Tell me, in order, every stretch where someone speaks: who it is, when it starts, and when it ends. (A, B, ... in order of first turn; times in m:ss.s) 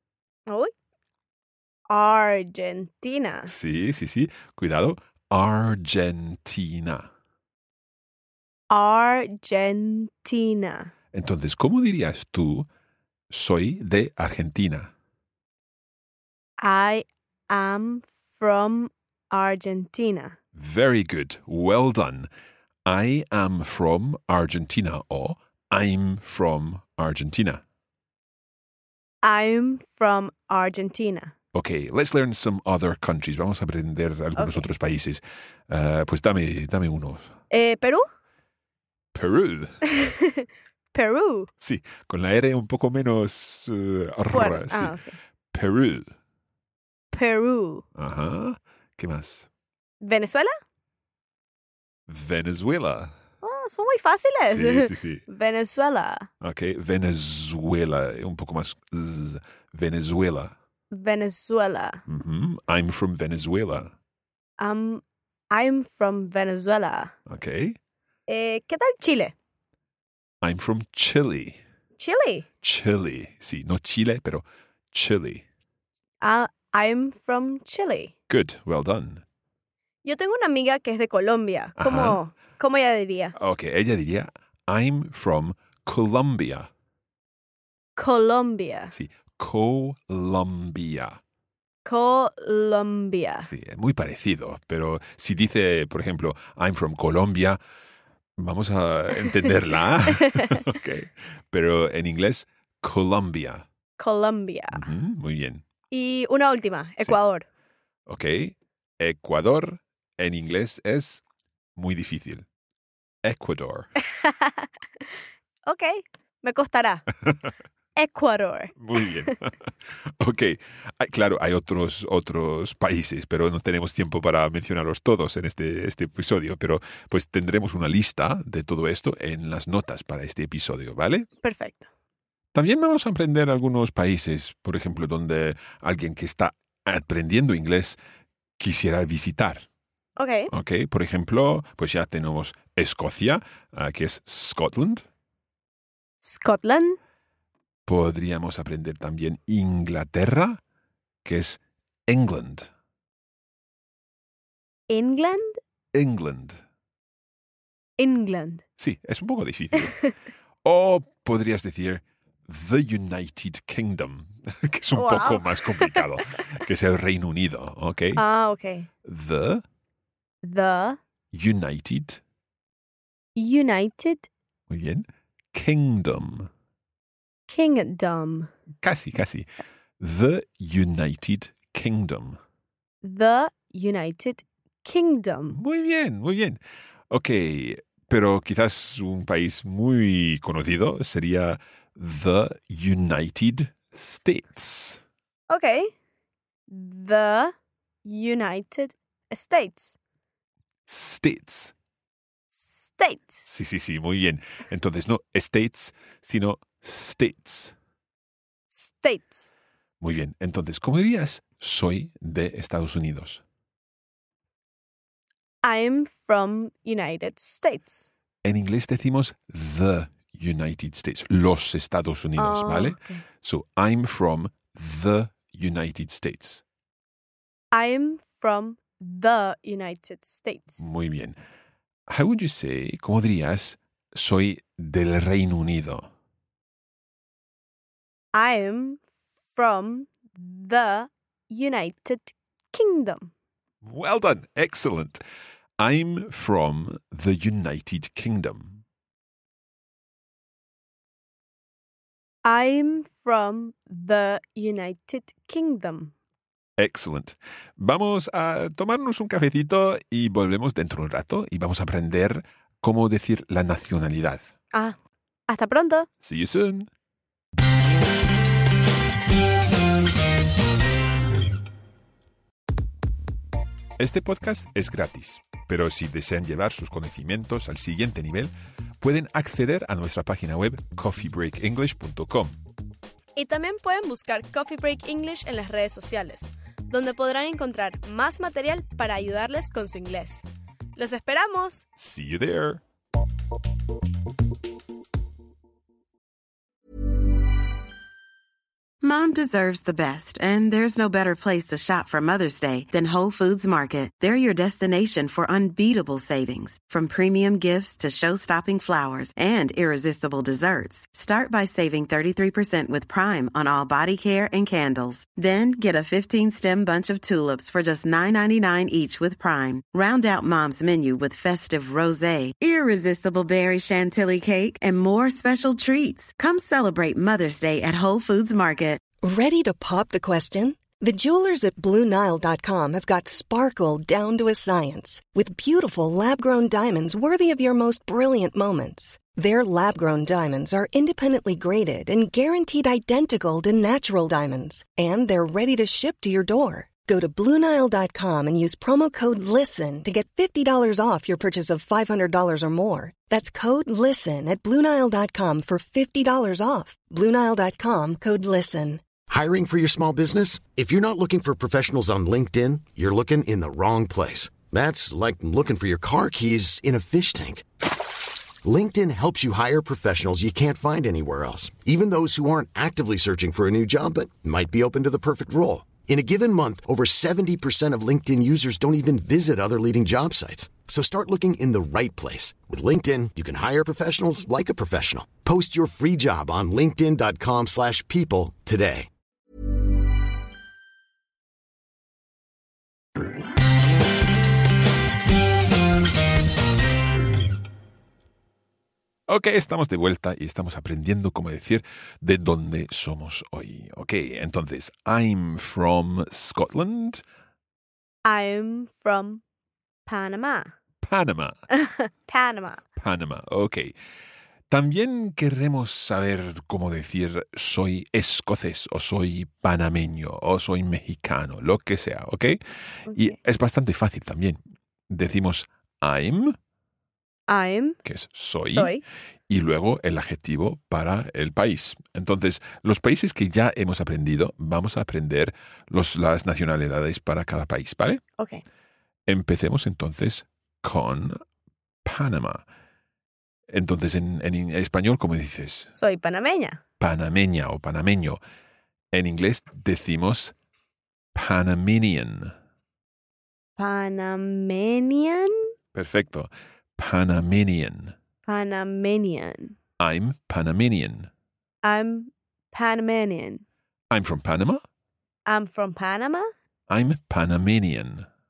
0:01.9-0:03.5 A
0:03.4-0:07.1 B
0:08.7-0:10.9 A
0:11.1-0:12.7 B
0:13.3-0:14.9 B
0:16.6-0:20.4 A
0:20.5-0:22.3 B
0:22.8-0:27.6 B
0:29.2-0:31.3 A
0:31.5-0:37.3 B
0:34.4-0:34.6 A
0:37.5-0:38.0 A
0:39.1-0:40.0 B
0:39.9-0:41.5 A
0:41.6-0:45.0 B
0:44.3-0:45.2 A
0:45.5-0:46.1 B
0:47.1-0:47.8 A
0:48.0-0:49.5 B
0:50.0-0:50.6 A
0:52.1-0:53.1 B
0:53.4-0:56.3 A
0:54.4-0:55.2 B
0:56.4-1:00.5 B
1:00.9-1:02.0 A
1:02.1-1:03.9 B
1:04.6-1:07.1 A
1:07.3-1:07.8 B
1:08.3-1:09.3 A
1:10.4-1:11.6 B
1:12.0-1:12.4 A
1:12.6-1:15.4 B
1:16.2-1:18.1 A
1:18.3-1:19.2 B
1:20.0-1:23.3 A
1:21.8-1:22.2 B
1:23.3-1:26.7 B
1:28.0-1:28.9 A
1:28.9-1:31.2 B
1:31.8-1:33.5 A
1:33.4-1:37.6 B
1:38.4-1:43.6 B
1:40.3-1:40.6 A
1:44.0-1:44.8 A
1:44.7-1:45.6 B
1:45.9-1:47.4 A
1:48.1-1:51.2 B
1:51.8-1:52.4 B
1:53.2-1:53.9 B
1:54.1-1:54.7 A
1:55.6-1:57.1 A
1:58.0-1:59.3 A
1:58.8-2:11.3 B
2:11.4-2:11.9 A
2:12.5-2:18.0 B
2:18.6-2:19.6 B
2:20.2-2:20.5 A
2:20.5-2:25.0 B
2:26.2-2:27.0 A
2:27.8-2:30.6 B
2:31.2-2:32.7 B
2:34.9-2:35.6 A
2:35.9-2:36.6 B
2:38.0-2:38.6 A
2:38.8-2:40.0 B
2:39.8-2:40.1 A
2:40.6-2:48.2 B
2:44.9-2:46.1 A
2:48.1-2:48.9 A
2:49.0-2:49.6 B
2:50.4-2:51.0 A
2:51.3-2:52.2 B
2:53.4-2:54.3 A
2:54.7-2:56.5 B
2:57.5-2:58.5 A
2:58.8-2:59.5 B
3:00.0-3:02.4 B
3:03.0-3:05.6 A
3:05.5-3:15.0 B
3:15.5-3:15.9 A
3:16.7-3:17.5 A
3:18.0-3:20.0 A
3:20.8-3:21.7 B
3:22.5-3:23.5 A
3:23.4-3:27.7 B
3:28.7-3:29.5 A
3:30.0-3:33.4 B
3:35.6-3:38.1 A
3:38.4-3:46.6 B
3:42.4-3:43.2 A
3:47.7-3:50.9 A
3:50.8-3:51.4 B
3:52.1-3:56.1 B
3:58.3-4:03.3 A
4:03.8-4:05.2 B
4:05.8-4:08.8 B
4:12.4-4:16.1 A
4:16.8-4:24.5 B
4:25.5-4:26.1 A
4:26.2-4:26.9 B
4:34.0-4:42.6 B
4:43.4-4:50.4 A
4:51.0-4:51.8 A
4:52.0-4:52.8 B
4:59.0-5:29.0 C
5:29.2-5:59.0 D
5:59.3-6:07.6 E
6:08.6-6:29.1 E
6:39.3-6:47.2 B
6:48.2-6:49.4 A
6:50.0-6:50.7 A
6:51.0-6:51.6 B
6:51.7-6:52.8 A
6:53.0-6:53.9 B
6:54.7-7:04.6 B
7:03.1-7:03.3 A
7:05.1-7:06.6 B
7:07.5-7:08.0 A
7:08.0-7:08.9 B
7:08.7-7:09.0 A
7:09.5-7:18.2 B
7:19.3-7:21.4 B
7:22.0-7:22.6 B
7:23.7-7:25.9 B
7:26.0-7:26.8 A
7:27.0-7:28.4 B
7:29.1-7:30.5 B
7:31.3-7:32.5 B
7:33.8-7:35.7 A
7:35.9-7:38.1 B
7:38.4-7:39.8 A
7:40.0-7:41.3 B
7:41.8-7:43.6 A
7:44.1-7:44.8 B
7:45.5-7:46.5 A
7:46.9-7:48.3 B